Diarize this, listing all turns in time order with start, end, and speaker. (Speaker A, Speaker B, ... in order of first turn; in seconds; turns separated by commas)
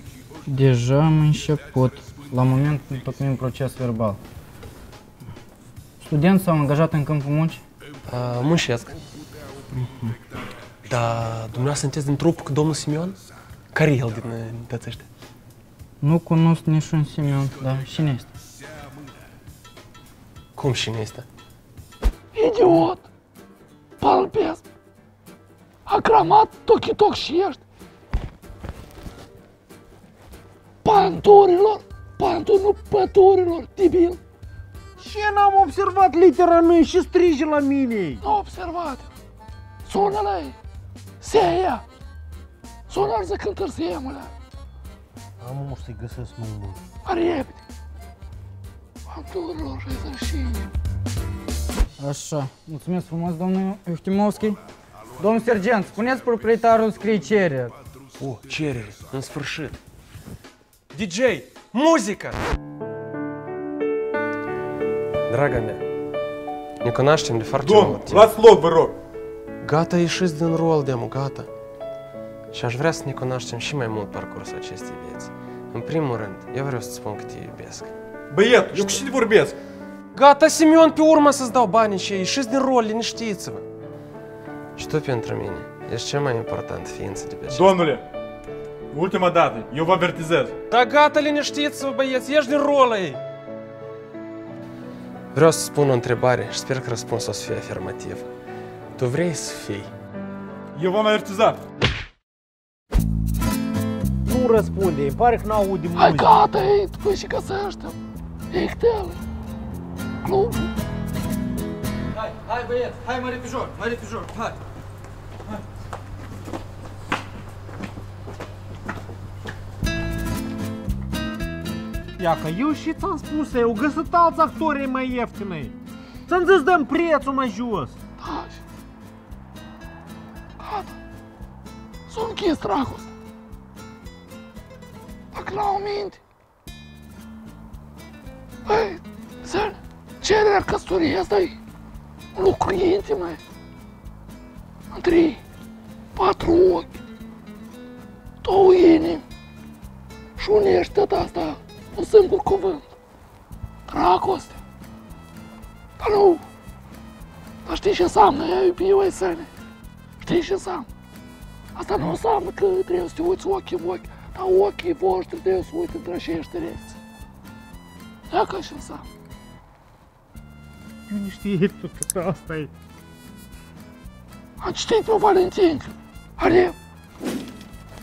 Speaker A: 0.5-4.2, Speaker A: 6.0-7.6, Speaker B: 8.1-8.9, Speaker A: 9.8-10.1, Speaker B: 10.8-13.2, Speaker B: 13.7-15.0, Speaker A: 16.0-18.3, Speaker B: 20.6-21.3, Speaker C: 22.3-23.0, Speaker C: 24.0-24.6, Speaker C: 25.9-27.6, Speaker C: 30.8-34.2, Speaker D: 35.0-38.2, Speaker C: 38.2-39.1, Speaker C: 39.9-40.5, Speaker C: 41.2-41.8, Speaker C: 42.9-44.3, Speaker D: 45.4-46.8, Speaker C: 47.0-47.6, Speaker C: 49.1-50.7, Speaker A: 52.0-54.6, Speaker A: 55.2-57.7, Speaker B: 58.2-59.8, Speaker B: 60.9-62.4, Speaker B: 65.3-65.8, Speaker B: 66.8-68.3, Speaker E: 67.6-68.9, Speaker B: 69.6-71.5, Speaker B: 72.5-77.9, Speaker E: 78.3-79.5, Speaker B: 80.1-83.6, Speaker B: 84.8-87.7, Speaker E: 87.5-88.0, Speaker E: 88.9-90.5, Speaker B: 90.7-93.2, Speaker B: 95.3-98.3, Speaker B: 99.0-99.9, Speaker E: 100.7-101.6, Speaker D: 104.2-106.3, Speaker C: 105.9-108.0, Speaker C: 108.5-109.2, Speaker C: 110.2-110.7, Speaker D: 112.4-114.5, Speaker D: 122.2-125.7, Speaker D: 126.3-128.0, Speaker C: 128.2-128.6, Speaker C: 130.6-130.9, Speaker C: 132.1-133.1, Speaker C: 135.3-136.2, Speaker C: 138.7-141.6, Speaker C: 142.3-143.4, Speaker C: 144.9-145.4, Speaker C: 146.2-146.9, Speaker C: 148.4-149.2, Speaker C: 150.4-152.9, Speaker C: 153.9-154.6, Speaker C: 156.0-156.4, Speaker C: 157.7-159.5, Speaker C: 160.2-160.9, Speaker C: 161.8-166.9, Speaker C: 168.3-169.0, Speaker D: 171.1-172.7, Speaker C: 174.6-176.8